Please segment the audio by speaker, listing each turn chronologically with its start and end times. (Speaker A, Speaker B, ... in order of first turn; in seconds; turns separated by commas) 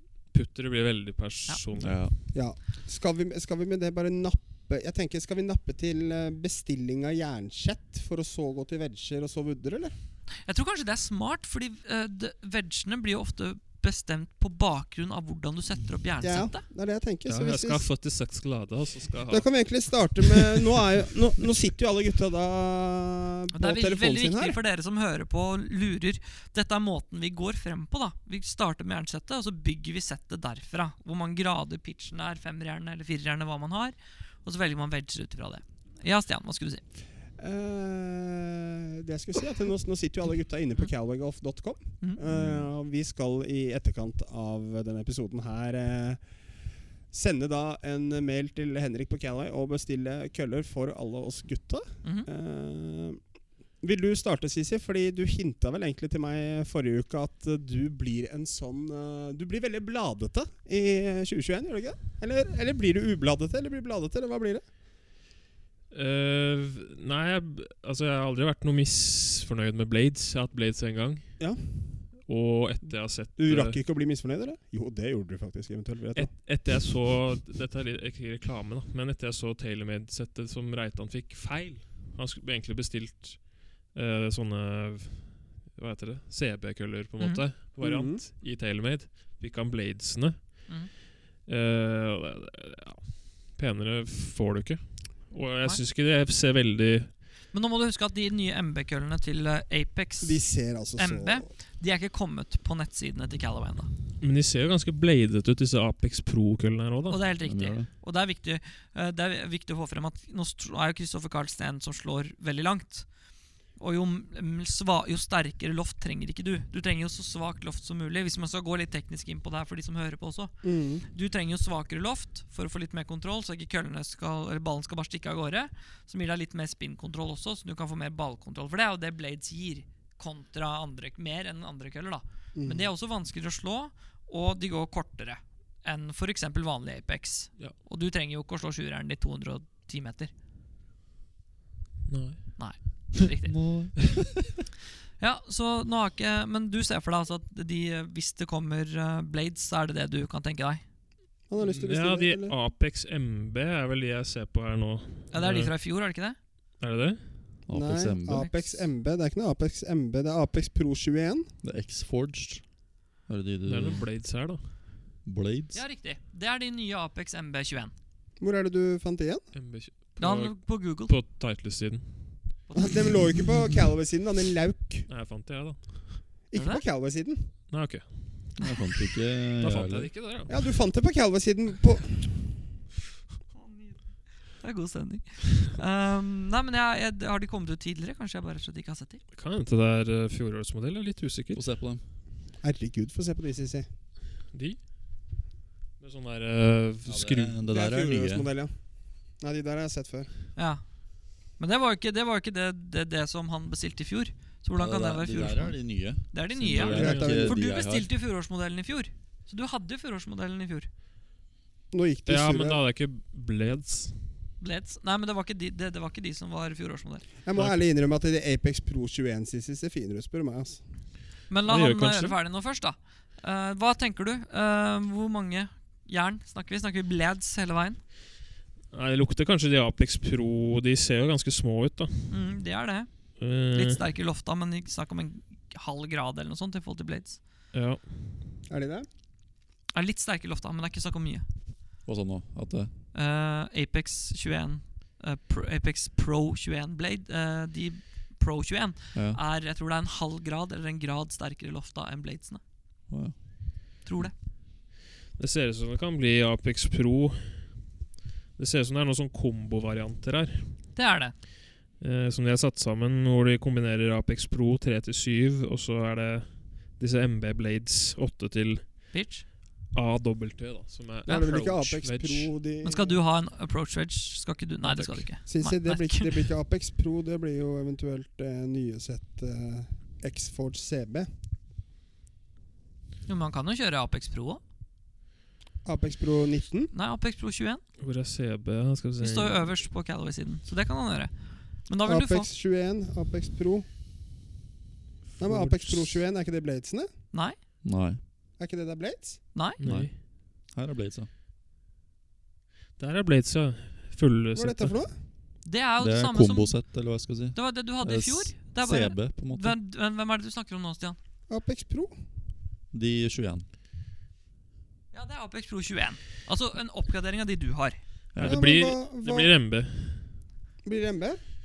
Speaker A: 0.2-2.0, Speaker B: 1.8-2.1, Speaker C: 2.3-9.9, Speaker D: 10.4-16.6, Speaker C: 16.2-17.9, Speaker A: 17.3-19.7, Speaker C: 19.3-24.6, Speaker D: 23.5-36.8, Speaker C: 37.4-46.3, Speaker B: 42.3-42.7, Speaker C: 47.1-53.2, Speaker C: 53.8-64.6, Speaker A: 65.9-71.5, Speaker C: 71.4-71.8, Speaker A: 72.3-73.8, Speaker C: 73.4-76.3, Speaker A: 76.2-90.8, Speaker D: 87.2-87.5, Speaker C: 87.8-88.2, Speaker A: 91.4-97.1, Speaker D: 97.5-103.9, Speaker C: 100.2-101.5, Speaker A: 104.2-107.2, Speaker D: 107.1-113.2, Speaker B: 107.4-107.9, Speaker D: 113.7-140.3, Speaker C: 120.6-121.0, Speaker C: 132.6-132.9, Speaker A: 142.1-143.1, Speaker D: 142.6-143.6, Speaker B: 143.5-144.6, Speaker D: 145.2-150.8, Speaker C: 151.5-152.6, Speaker A: 151.6-155.7, Speaker D: 155.3-156.4, Speaker A: 156.8-157.3, Speaker B: 157.7-158.5, Speaker C: 157.7-161.5, Speaker D: 158.3-158.9, Speaker B: 161.6-164.1, Speaker A: 163.7-164.7, Speaker B: 165.2-165.8, Speaker D: 165.7-167.9, Speaker C: 168.4-169.5, Speaker A: 169.5-172.5, Speaker D: 170.2-171.2, Speaker D: 172.7-172.9, Speaker C: 172.7-175.1, Speaker A: 175.1-176.2, Speaker C: 176.5-177.5, Speaker D: 176.6-176.8, Speaker A: 177.7-178.6, Speaker B: 178.6-180.2, Speaker A: 179.6-180.6, Speaker C: 180.5-182.6, Speaker D: 183.5-189.2, Speaker A: 189.3-191.7, Speaker B: 191.5-192.0, Speaker C: 192.6-193.9, Speaker A: 194.5-194.9, Speaker A: 196.0-197.6, Speaker B: 197.1-198.5, Speaker C: 197.7-200.3, Speaker D: 200.6-210.9, Speaker B: 204.8-208.1, Speaker A: 206.8-207.3, Speaker C: 206.8-207.6, Speaker C: 211.9-212.8, Speaker A: 212.3-214.3, Speaker D: 214.6-217.3, Speaker C: 217.4-220.8, Speaker A: 217.6-217.8, Speaker D: 221.5-228.0, Speaker A: 221.6-222.4, Speaker A: 228.9-232.4, Speaker D: 232.3-237.4, Speaker A: 233.4-234.0, Speaker A: 237.7-238.3, Speaker C: 238.7-239.1, Speaker D: 239.9-241.5, Speaker B: 242.1-242.9, Speaker D: 243.1-252.6, Speaker B: 249.2-249.4, Speaker B: 253.1-254.3, Speaker D: 254.0-254.3, Speaker A: 255.3-257.9, Speaker A: 258.6-260.8, Speaker D: 260.9-261.4, Speaker A: 261.9-269.1, Speaker D: 269.1-269.4, Speaker A: 269.9-272.5, Speaker C: 271.3-273.2, Speaker D: 272.8-276.5, Speaker A: 274.8-275.3, Speaker C: 275.5-281.3, Speaker D: 283.3-284.6, Speaker C: 285.8-286.9, Speaker D: 286.9-287.8, Speaker A: 288.0-289.8, Speaker D: 289.2-292.5, Speaker C: 292.0-293.9, Speaker A: 295.4-296.1, Speaker C: 295.4-297.1, Speaker D: 297.3-297.6, Speaker B: 297.8-298.2, Speaker C: 298.6-299.5, Speaker D: 299.5-299.8, Speaker A: 299.8-300.1, Speaker B: 299.8-301.3, Speaker A: 303.0-305.0, Speaker C: 304.6-305.1, Speaker D: 305.6-306.8, Speaker B: 306.0-309.8, Speaker D: 307.5-311.2, Speaker C: 311.5-312.1, Speaker B: 312.9-313.7, Speaker D: 315.1-318.0, Speaker B: 318.3-318.6, Speaker A: 318.4-320.4, Speaker C: 318.4-319.5, Speaker C: 320.8-321.4